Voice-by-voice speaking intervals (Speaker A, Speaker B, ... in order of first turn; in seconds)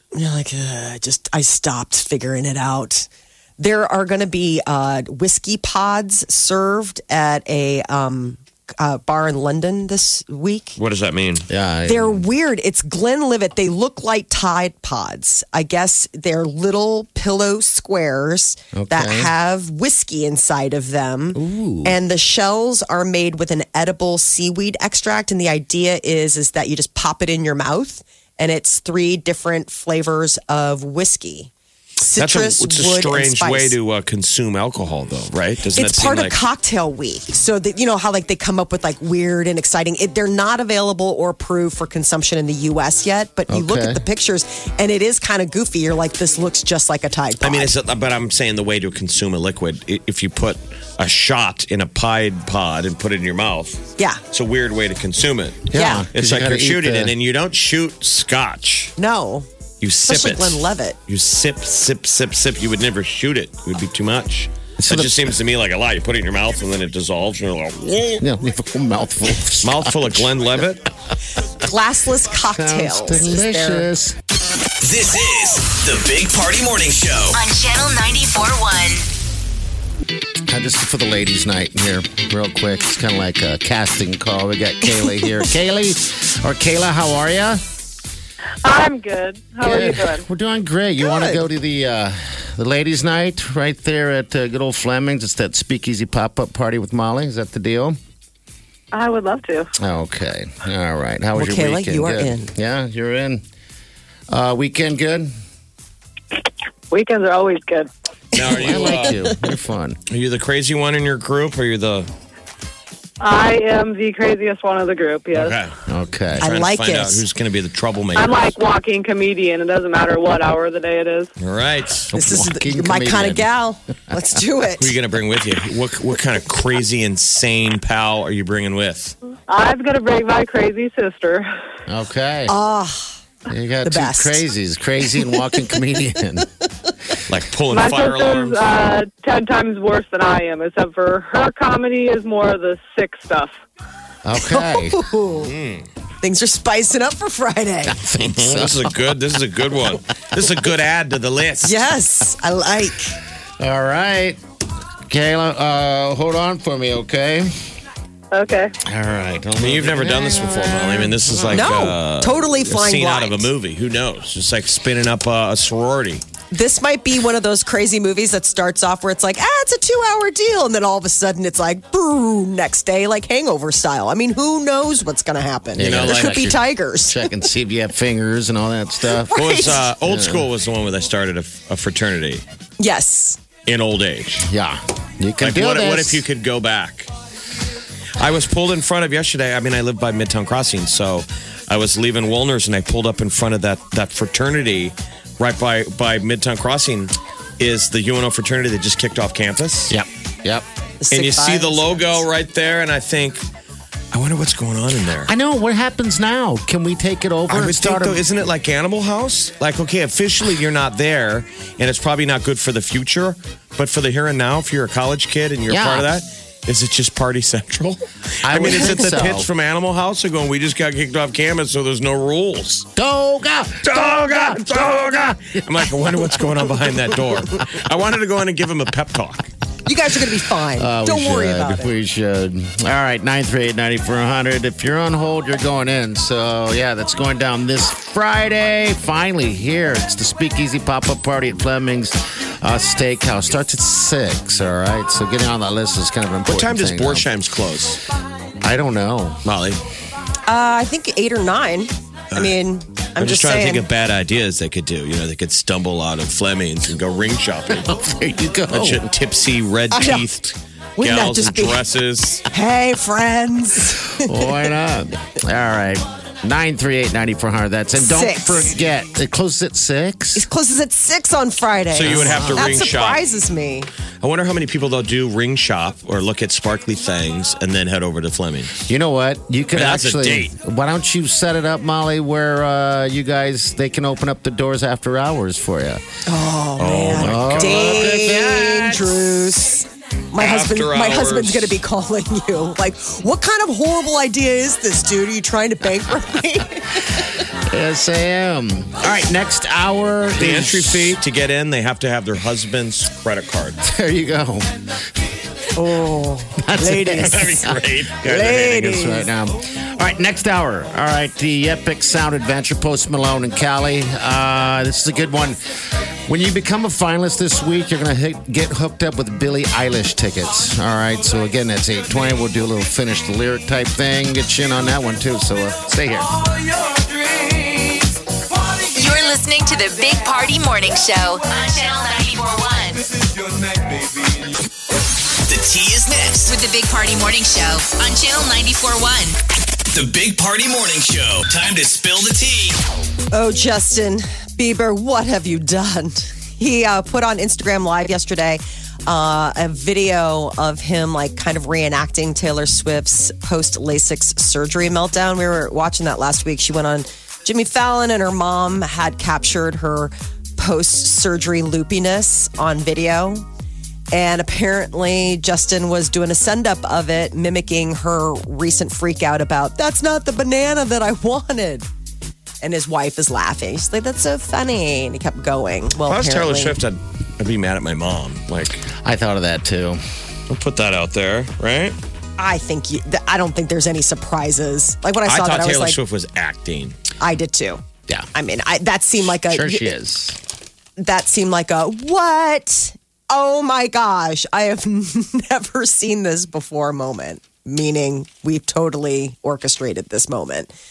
Speaker A: 0.1-10.8, 11.8-33.8, 35.8-47.7, 55.7-56.1, 59.0-59.5, 60.0-61.0, 71.6-73.9, 84.9-85.3, 91.0-91.4, 101.3-102.5, 108.7-109.1, 116.4-117.2, 122.1-124.9, 132.5-133.2, 133.8-134.4, 135.2-135.7, 144.4-145.5, 146.2-148.0, 151.6-153.2, 161.5-163.5, 166.5-177.3, 179.1-179.9, 182.8-183.4, 201.0-202.2, 229.9-231.9, 250.4-253.8, 259.9-260.3, 261.0-261.8, 262.5-264.6, 267.9-268.7, 270.3-273.9, 286.2-296.9, 305.8-307.6, 308.2-309.2, 343.3-363.4, 364.1-371.9, 372.6-376.8, 382.4-386.0, 387.2-387.8, 388.3-389.9, 391.0-400.7
Speaker B: 10.8-11.5, 32.2-36.4, 47.4-58.9, 59.8-68.2, 69.6-70.9, 108.3-109.2, 110.1-112.1, 115.3-115.7, 116.4-118.5, 121.4-122.1, 124.8-129.1, 137.3-138.7, 145.4-145.9, 148.2-151.9, 159.6-166.2, 175.8-176.5, 179.3-182.4, 183.7-184.5, 185.4-187.1, 188.2-199.9, 201.1-203.4, 204.1-205.3, 207.5-222.9, 223.8-229.5, 246.4-248.0, 249.4-249.8, 253.2-257.9, 258.7-262.4, 271.9-273.2, 274.2-278.8, 279.7-280.5, 286.8-289.1, 290.4-291.8, 300.4-303.8, 307.2-309.1, 376.1-378.8, 380.5-382.0, 385.2-387.0
Speaker C: 11.5-12.3, 18.7-19.3, 21.3-22.0, 43.5-44.0, 55.7-57.1, 64.8-65.3, 68.2-70.3, 72.5-74.2, 80.5-87.6, 89.6-98.0, 99.8-103.4, 104.3-105.3, 108.4-110.0, 115.9-116.5, 122.1-123.5, 131.9-132.5, 133.5-136.5, 144.2-145.0, 147.8-148.8, 153.6-154.4, 155.1-157.5, 158.9-161.7, 175.8-180.5, 184.4-186.2, 199.9-200.6, 205.2-208.2, 215.7-216.1, 218.4-219.5, 222.9-225.6, 230.7-247.3, 248.6-249.4, 257.7-259.1, 264.2-270.5, 272.0-272.8, 278.8-286.0, 287.2-288.8, 297.7-301.2, 303.8-304.6, 306.6-307.8, 308.4-315.6, 316.3-326.4, 379.0-380.0, 389.3-390.4
Speaker D: 74.8-77.4, 335.4-336.5, 339.9-342.8
Speaker E: 77.3-79.0, 328.9-333.0, 336.4-339.4
Speaker F: 88.6-90.2, 98.9-99.7, 106.9-107.9, 113.2-115.5, 118.1-121.3, 129.5-131.4, 137.7-143.5, 158.3-158.7